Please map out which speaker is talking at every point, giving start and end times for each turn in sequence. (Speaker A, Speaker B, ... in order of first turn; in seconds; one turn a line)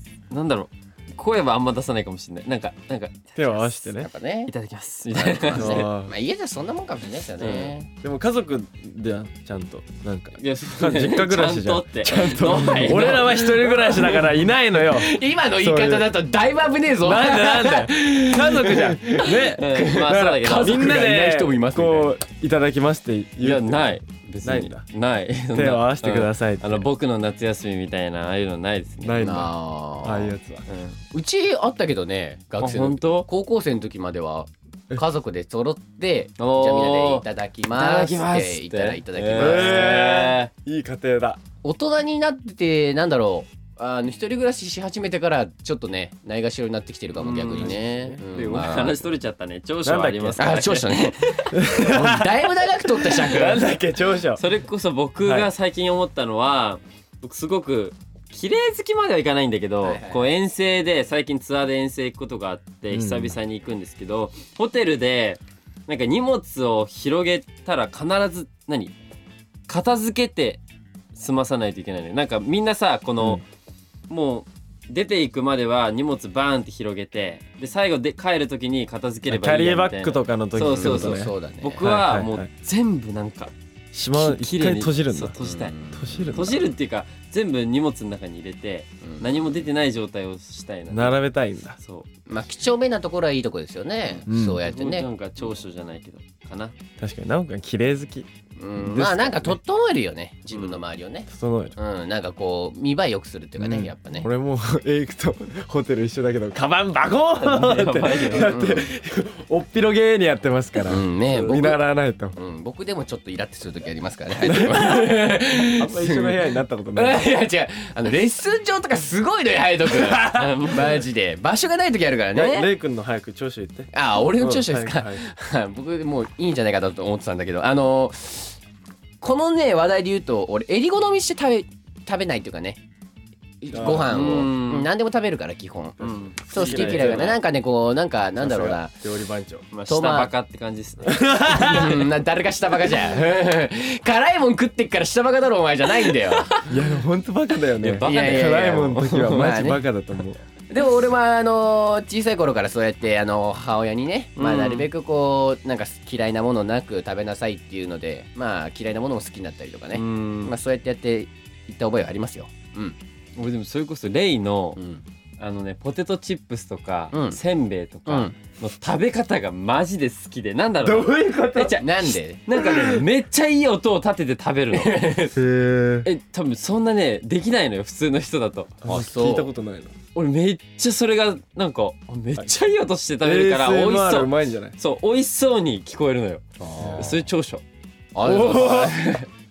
Speaker A: 0.3-3.8
Speaker B: 3.4-4.1
Speaker C: 3.9-4.5
Speaker A: 4.5-5.8
Speaker C: 5.1-7.9
Speaker B: 5.5-6.1
Speaker A: 7.4-7.7
Speaker B: 8.0-16.1
Speaker A: 10.4-13.7
Speaker C: 14.8-22.1
Speaker B: 17.0-24.9
Speaker A: 19.6-21.0
Speaker A: 23.4-29.4
Speaker B: 25.5-26.8
Speaker B: 29.0-30.6
Speaker C: 29.2-30.3
Speaker A: 30.7-31.0
Speaker C: 31.1-40.2
Speaker A: 32.6-33.3
Speaker A: 36.4-40.5
Speaker B: 39.4-41.4
Speaker C: 41.6-49.1
Speaker A: 47.2-51.5
Speaker B: 47.6-48.2
Speaker B: 49.8-50.6
Speaker C: 50.4-53.7
Speaker B: 51.5-54.4
Speaker A: 54.4-68.9
Speaker B: 55.2-55.5
Speaker C: 59.8-60.3
Speaker B: 62.9-63.4
Speaker A: 69.7-70.6
Speaker A: 71.1-73.4
Speaker A: 74.1-83.5
Speaker B: 79.3-82.5
Speaker C: 80.6-81.8
Speaker B: 83.9-85.3
Speaker A: 84.1-91.2
Speaker C: 85.4-86.6
Speaker B: 85.9-86.6
Speaker C: 89.0-89.5
Speaker B: 90.9-91.8
Speaker A: 91.8-92.1
Speaker C: 92.3-95.1
Speaker B: 94.3-94.6
Speaker A: 94.6-96.8
Speaker B: 97.0-99.5
Speaker C: 98.6-104.3
Speaker A: 100.5-100.8
Speaker B: 101.3-101.7
Speaker B: 103.6-112.3
Speaker A: 107.4-108.6
Speaker C: 108.3-108.9
Speaker C: 110.8-111.8
Speaker C: 112.3-116.4
Speaker B: 114.5-115.2
Speaker B: 115.8-117.2
Speaker C: 116.9-122.7
Speaker B: 120.0-120.5
Speaker A: 120.3-120.9
Speaker B: 122.3-125.2
Speaker C: 123.9-128.6
Speaker C: 129.2-132.8
Speaker C: 133.6-138.9
Speaker B: 133.7-134.2
Speaker A: 134.1-134.9
Speaker A: 136.0-137.4
Speaker B: 136.5-137.3
Speaker B: 138.4-139.6
Speaker A: 139.7-142.0
Speaker C: 139.9-140.3
Speaker B: 141.1-141.9
Speaker C: 141.5-146.5
Speaker A: 146.3-146.7
Speaker B: 146.6-150.4
Speaker A: 147.8-149.5
Speaker C: 148.0-149.8
Speaker C: 150.7-163.0
Speaker A: 154.4-154.9
Speaker A: 159.9-160.5
Speaker A: 163.3-164.8
Speaker C: 164.8-165.0
Speaker A: 165.4-175.3
Speaker C: 167.1-167.4
Speaker C: 168.1-168.3
Speaker B: 170.8-171.8
Speaker C: 171.7-172.7
Speaker C: 174.7-175.3
Speaker B: 175.3-176.1
Speaker A: 176.0-178.8
Speaker B: 178.8-179.9
Speaker C: 178.8-179.5
Speaker A: 180.1-186.4
Speaker B: 183.2-184.8
Speaker C: 186.6-187.2
Speaker B: 186.8-187.1
Speaker A: 187.0-187.6
Speaker C: 188.1-189.2
Speaker B: 188.2-189.2